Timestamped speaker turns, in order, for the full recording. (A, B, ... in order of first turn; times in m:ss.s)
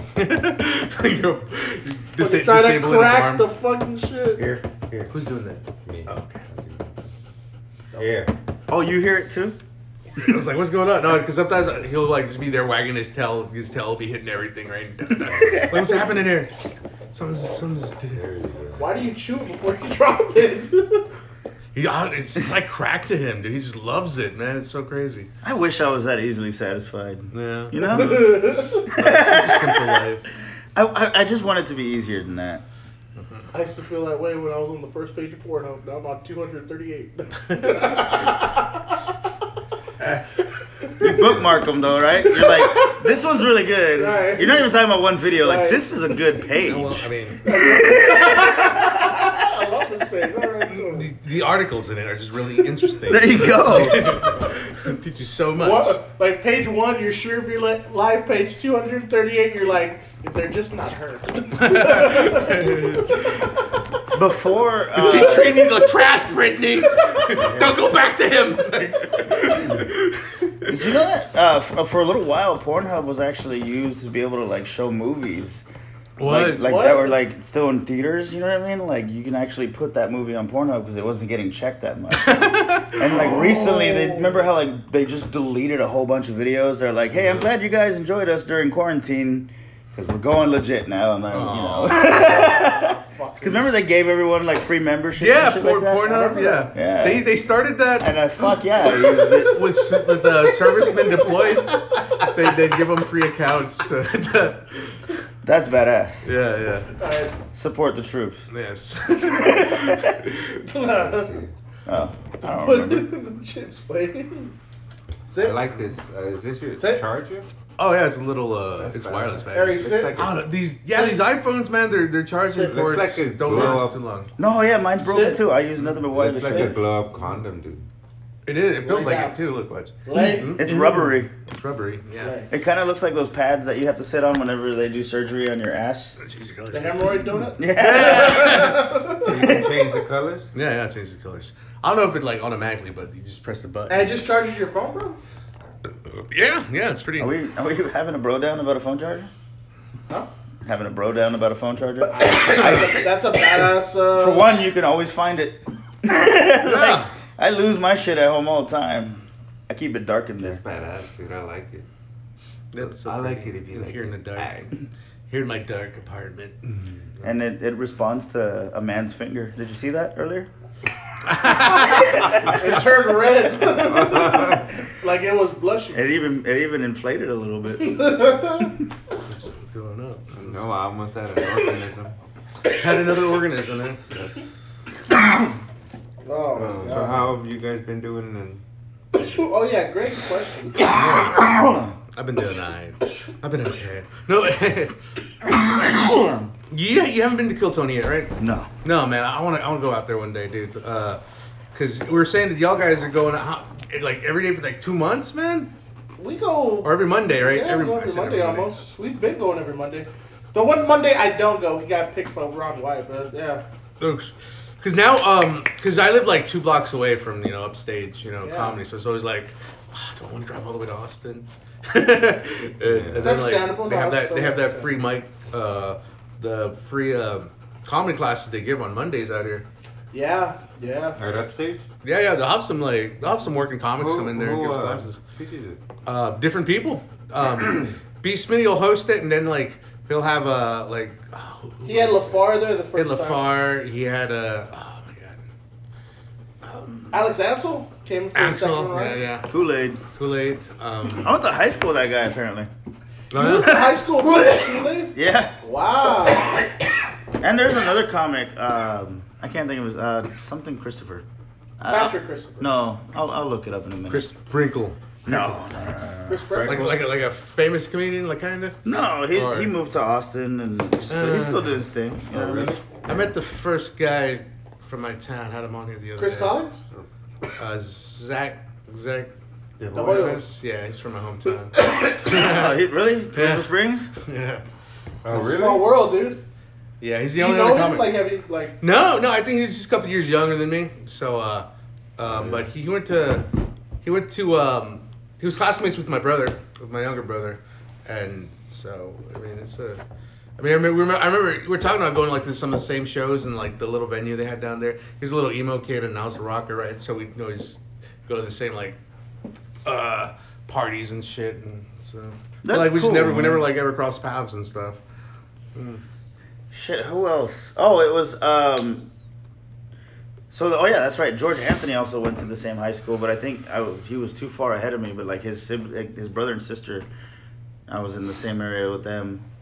0:00.2-0:03.5 A
0:02.2-0:04.5 B
0:04.4-0:05.1 C
0:05.1-0:06.4 A
0:05.8-0:07.0 C
0:07.9-0:08.3 C
0:08.7-0:09.6 D
0:10.2-0:16.5 A
0:15.2-0:16.1 D
0:17.1-0:18.2 A
0:18.1-0:18.9 C
0:18.8-0:21.1 B
0:21.8-0:25.3 A
0:25.4-0:30.0 D
0:27.3-0:30.3 A
0:27.8-0:28.9 B
0:30.7-0:32.6 D
0:33.2-0:33.4 A
0:33.5-0:39.1 B
0:37.5-0:37.8 A
0:40.8-0:41.3 B
0:41.0-0:49.3 D
0:42.2-0:43.1 B
0:43.9-0:44.7 B
0:45.3-0:45.8 B
0:46.6-0:47.6 A
0:47.4-0:51.1 B
0:50.6-0:56.0 A
0:53.1-0:54.3 D
0:55.6-1:03.5 B
1:01.5-1:03.5 A
1:04.1-1:05.6 D
1:04.9-1:11.0 A
1:05.1-1:05.8 B
1:07.0-1:07.3 B
1:07.4-1:07.7 D
1:10.7-1:15.6 D
1:16.2-1:16.7 A
1:16.2-1:37.3 D
1:16.6-1:17.2 B
1:22.1-1:23.3 A
1:23.0-1:24.4 B
1:27.1-1:27.5 A
1:31.3-1:32.1 A
1:31.9-1:33.7 B
1:35.2-1:38.1 A
1:36.1-1:36.7 B
1:38.0-1:39.7 D
1:38.9-1:39.4 B
1:39.4-1:45.2 A
1:40.7-1:42.4 B
1:45.4-1:46.3 D
1:46.2-1:46.9 A
1:47.0-1:47.4 B
1:47.5-1:48.5 D
1:48.5-1:50.6 A
1:49.2-1:50.2 D
1:50.6-1:51.4 B
1:50.8-1:51.5 C
1:51.9-1:53.1 D
1:52.4-1:54.5 B
1:55.3-1:55.6 B
1:55.4-1:57.5 C
1:56.8-1:57.0 B
1:57.8-2:04.3 A
1:58.8-2:00.4 C
1:59.5-2:00.3 B
2:02.5-2:02.8 B
2:02.6-2:04.0 C
2:04.4-2:06.8 D
2:05.0-2:05.4 B
2:06.1-2:07.9 C
2:06.4-2:06.8 B
2:08.4-2:12.4 A
2:08.8-2:09.4 B
2:10.0-2:10.8 B
2:10.2-2:11.3 D
2:12.2-2:12.5 B
2:12.5-2:16.2 D
2:16.2-2:18.9 A
2:16.7-2:19.4 B
2:17.6-2:19.7 D
2:19.2-2:20.5 C
2:20.5-2:24.1 A
2:23.9-2:25.2 B
2:26.0-2:27.3 A
2:27.2-2:29.3 D
2:30.6-2:33.0 D
2:32.1-2:34.6 B
2:32.5-2:32.9 A
2:34.1-2:40.6 D
2:36.6-2:37.1 A
2:40.4-2:41.9 C
2:42.7-2:44.8 A
2:42.8-2:44.7 C
2:45.3-2:47.3 A
2:47.2-2:50.5 D
2:51.2-2:52.8 A
2:51.6-2:52.6 D
2:51.8-2:56.3 B
2:53.8-2:54.6 C
2:55.9-2:58.7 D
2:57.8-2:58.7 B
2:59.2-3:00.7 A
3:00.4-3:02.1 C
3:02.7-3:04.0 A
3:06.2-3:07.3 B
3:06.6-3:08.6 C
3:09.1-3:10.9 B
3:10.7-3:11.9 D
3:10.9-3:11.4 A
3:12.1-3:15.0 A
3:15.5-3:16.5 D
3:16.7-3:21.2 A
3:18.4-3:18.7 D
3:21.7-3:25.7 A
3:26.2-3:33.6 B
3:26.8-3:28.8 A
3:34.0-3:49.6 A
3:38.4-3:38.8 B
3:42.8-3:43.4 C
3:43.2-3:44.9 B
3:50.1-3:51.2 B
3:51.2-3:51.9 C
3:52.0-3:55.2 A
3:54.0-3:55.8 C
3:56.1-4:05.4 A
4:01.8-4:03.4 B
4:06.6-4:07.1 A
4:07.1-4:09.2 B
4:08.4-4:09.5 A
4:09.5-4:10.0 D
4:10.1-4:11.3 A
4:11.2-4:12.7 D
4:13.3-4:13.8 A
4:13.3-4:16.7 B
4:13.4-4:15.5 D
4:17.4-4:21.2 D
4:21.8-4:24.3 D
4:21.9-4:22.7 B
4:24.1-4:25.6 A
4:25.3-4:26.6 D
4:26.3-4:27.0 B
4:26.5-4:26.9 C
4:26.6-4:28.8 A
4:28.8-4:32.8 D
4:29.3-4:29.8 A
4:31.1-4:31.8 A
4:32.3-4:32.8 C
4:33.1-4:36.6 A
4:36.2-4:36.8 B
4:37.6-4:39.3 A
4:39.8-4:40.4 C
4:39.9-4:40.4 B
4:40.0-4:42.7 A
4:42.1-4:44.1 D
4:43.3-4:44.6 A
4:45.2-4:45.9 C
4:45.3-4:46.4 B
4:47.0-4:48.2 A
4:47.4-4:48.8 B
4:48.8-4:53.5 A
4:52.3-4:52.7 C
4:54.0-5:00.0 A
5:00.6-5:09.0 A
5:09.8-5:15.0 A
5:12.6-5:13.7 D
5:15.8-5:16.0 A
5:16.7-5:19.1 D
5:20.5-5:27.1 D
5:27.9-5:29.4 D